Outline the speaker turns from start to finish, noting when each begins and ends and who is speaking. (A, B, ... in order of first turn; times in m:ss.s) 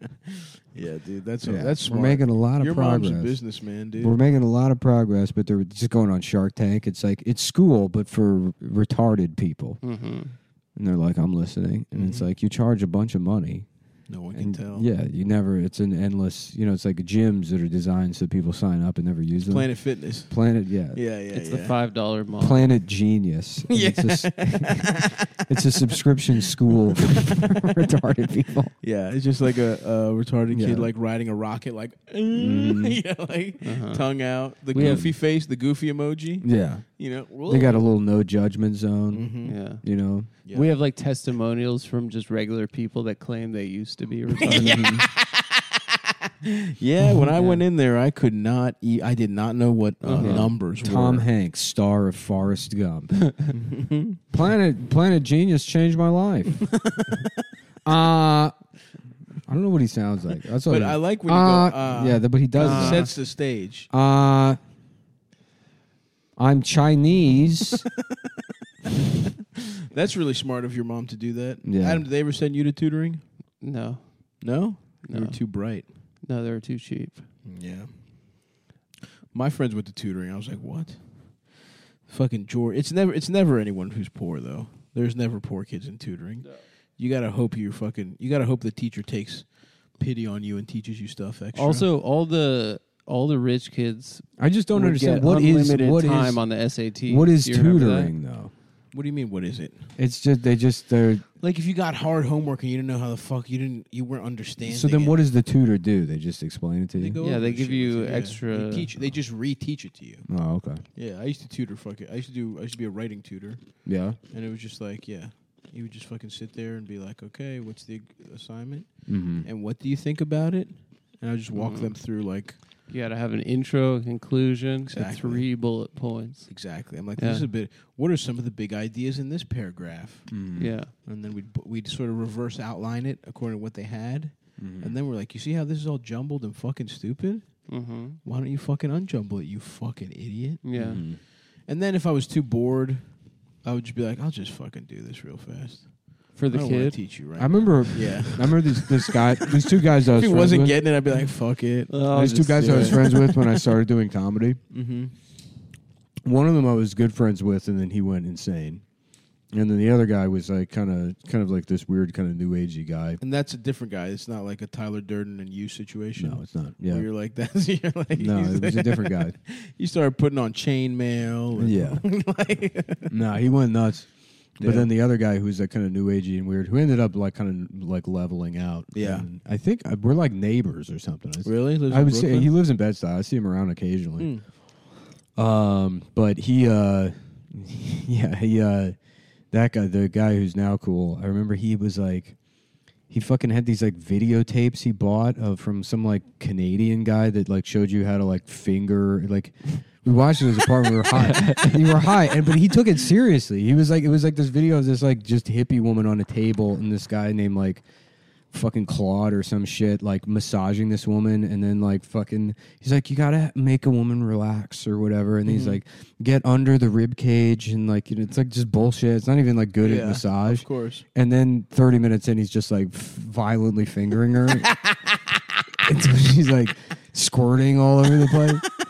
0:00.3-0:04.2 A
0:01.4-0:03.4 B
0:04.0-0:09.8 B
0:09.8-0:10.4 C
0:10.8-0:13.7 B
0:11.9-0:12.3 A
0:14.1-0:14.9 A
0:14.3-0:19.7 B
0:19.4-0:21.8 A
0:20.3-0:21.0 B
0:21.3-0:22.7 C
0:22.4-0:28.7 B
0:23.7-0:25.3 A
0:28.8-0:37.9 A
0:30.5-0:30.9 B
0:32.4-0:33.0 B
0:33.6-0:34.0 C
0:34.7-0:35.1 B
0:34.7-0:35.0 C
0:36.4-0:36.8 B
0:37.4-0:39.3 B
0:39.1-0:39.6 A
0:39.4-0:39.8 C
0:39.8-0:40.3 B
0:40.4-0:44.9 C
0:40.4-0:40.7 A
0:44.4-0:51.3 A
0:44.5-0:45.1 B
0:47.3-0:47.6 C
0:50.0-0:50.5 C
0:50.2-0:53.5 B
0:53.5-0:54.2 A
0:54.3-0:56.7 B
0:56.6-0:57.3 A
0:57.8-0:58.5 B
0:59.5-1:03.1 B
1:00.7-1:03.9 A
1:02.6-1:03.1 C
1:03.9-1:04.6 B
1:06.4-1:07.8 B
1:09.6-1:13.2 A
1:11.6-1:12.0 B
1:13.6-1:14.4 C
1:14.4-1:15.8 A
1:15.0-1:15.4 C
1:16.2-1:17.2 C
1:17.4-1:18.4 A
1:19.3-1:31.8 A
1:31.5-1:38.1 C
1:34.4-1:36.5 B
1:37.1-1:38.5 B
1:38.9-1:39.9 A
1:40.0-1:41.2 B
1:41.4-1:45.2 A
1:44.6-1:47.2 B
1:47.0-1:50.3 A
1:47.2-1:48.9 C
1:50.3-1:50.8 B
1:50.9-2:02.6 A
1:53.8-1:54.2 B
1:59.1-1:59.5 B
2:01.5-2:01.9 C
2:02.9-2:06.5 C
2:04.9-2:05.4 A
2:06.5-2:23.1 A
2:07.2-2:07.5 C
2:10.3-2:10.7 B
2:10.6-2:10.9 C
2:14.6-2:14.9 B
2:17.7-2:18.2 C
2:20.6-2:21.0 C
2:20.8-2:21.2 B
2:23.6-2:33.6 A
2:26.3-2:27.0 C
2:27.4-2:30.8 B
2:31.9-2:33.2 C
2:32.1-2:34.6 B
2:34.7-2:35.1 A
2:36.2-2:38.8 B
2:39.5-2:43.2 B
2:43.2-2:53.1 A
2:46.2-2:47.1 B
2:48.2-2:49.4 B
2:51.6-2:52.0 B
2:53.1-3:04.3 B
2:54.6-2:54.9 A
2:58.9-2:59.3 A
3:01.4-3:02.5 A
3:04.2-3:04.4 A
3:05.4-3:08.9 B
3:09.5-3:12.4 B
3:13.1-3:27.8 B
3:21.2-3:21.8 C
3:28.5-3:44.7 B
3:35.4-3:35.8 A
3:39.8-3:41.0 A
3:45.8-3:48.7 B